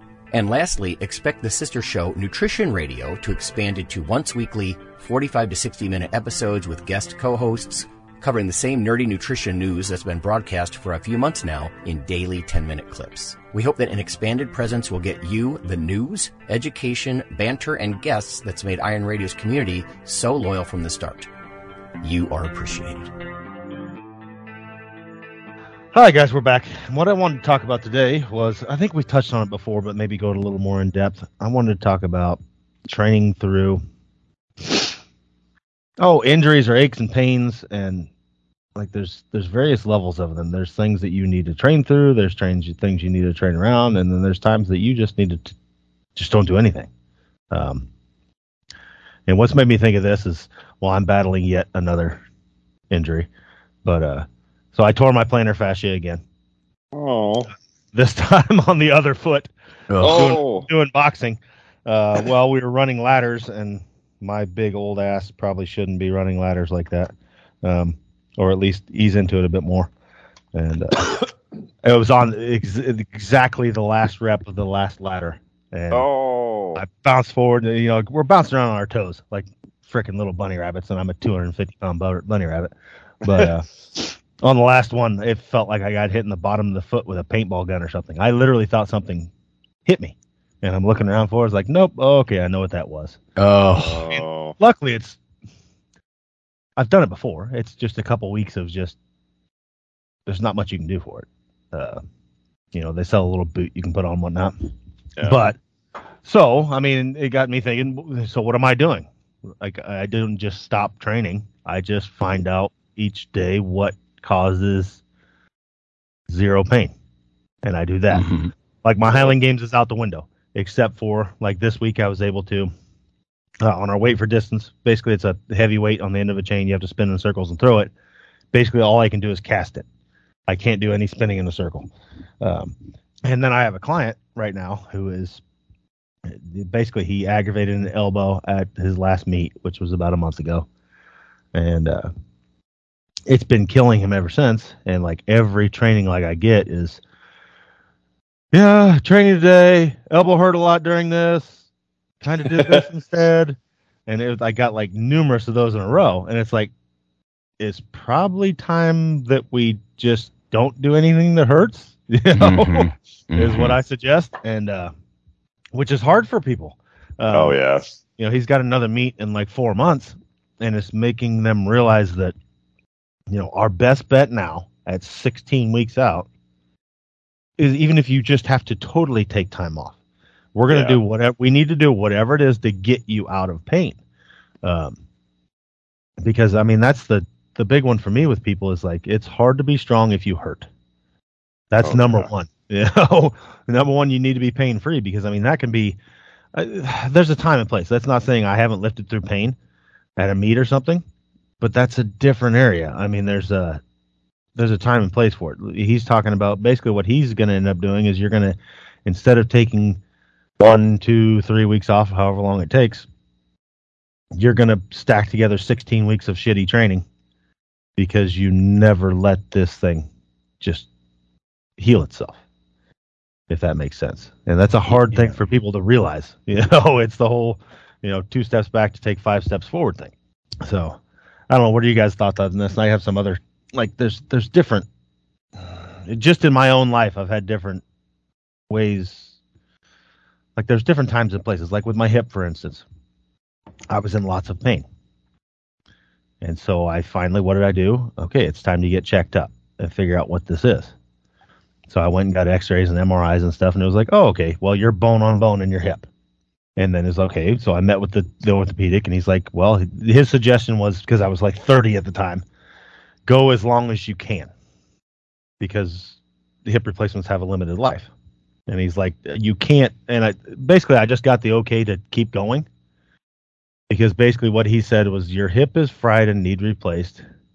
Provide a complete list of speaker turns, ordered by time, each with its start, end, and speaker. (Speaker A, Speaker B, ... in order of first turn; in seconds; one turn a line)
Speaker A: 0.3-21.3
Speaker A: 22.0-23.1
Speaker B: 25.9-33.8
Speaker B: 34.6-34.9
Speaker B: 36.0-38.1
Speaker B: 38.8-45.5
Speaker B: 46.2-46.9
Speaker B: 47.5-47.9
Speaker B: 49.3-52.2
Speaker B: 52.9-53.3
Speaker B: 53.8-56.2
Speaker C: 56.9-57.5
Speaker B: 57.9-67.1
Speaker A: 59.9-60.4
Speaker C: 60.0-60.7
Speaker B: 67.6-69.9
Speaker B: 70.5-71.2
Speaker B: 71.8-76.1
Speaker C: 75.9-76.8
Speaker B: 76.8-89.3
Speaker B: 89.8-93.2
Speaker A: 93.4-94.2
Speaker C: 93.8-94.6
Speaker B: 94.6-95.2
Speaker B: 96.8-99.0
Speaker B: 100.3-102.0
Speaker B: 102.7-104.5
Speaker C: 105.2-105.4
Speaker B: 105.2-105.6
Speaker B: 106.2-109.1
Speaker B: 109.6-115.0
Speaker B: 116.3-116.9
Speaker B: 117.6-118.3
Speaker A: 118.1-118.5
Speaker B: 118.8-122.7
Speaker B: 123.6-127.9
Speaker B: 128.5-129.8
Speaker B: 130.5-131.9
Speaker B: 132.4-135.4
Speaker B: 136.2-140.7
Speaker B: 141.5-142.1
Speaker B: 143.3-147.0
Speaker B: 148.5-151.6
Speaker B: 152.2-156.7
Speaker C: 152.6-152.8
Speaker B: 157.6-164.9
Speaker A: 162.3-163.8
Speaker B: 165.7-167.6
Speaker C: 167.3-167.9
Speaker B: 168.2-172.3
Speaker B: 173.3-176.3
Speaker B: 177.6-179.9
Speaker B: 180.6-184.0
Speaker C: 180.7-181.0
Speaker B: 184.6-185.0
Speaker B: 186.2-190.7
Speaker B: 191.7-196.0
Speaker C: 191.8-192.3
Speaker B: 196.5-199.6
Speaker B: 200.2-201.0
Speaker B: 201.6-203.8
Speaker B: 204.6-210.0
Speaker B: 210.6-213.1
Speaker B: 214.3-217.1
Speaker B: 218.0-220.1
Speaker B: 220.6-220.9
Speaker B: 221.8-222.4
Speaker B: 223.5-230.1
Speaker B: 230.6-234.9
Speaker B: 235.6-237.8
Speaker B: 238.7-239.3
Speaker B: 240.6-242.8
Speaker B: 243.9-244.9
Speaker B: 246.4-250.9
Speaker B: 251.9-256.1
Speaker B: 256.8-262.4
Speaker B: 263.3-264.5
Speaker B: 265.6-268.1
Speaker B: 268.7-272.7
Speaker B: 273.9-277.2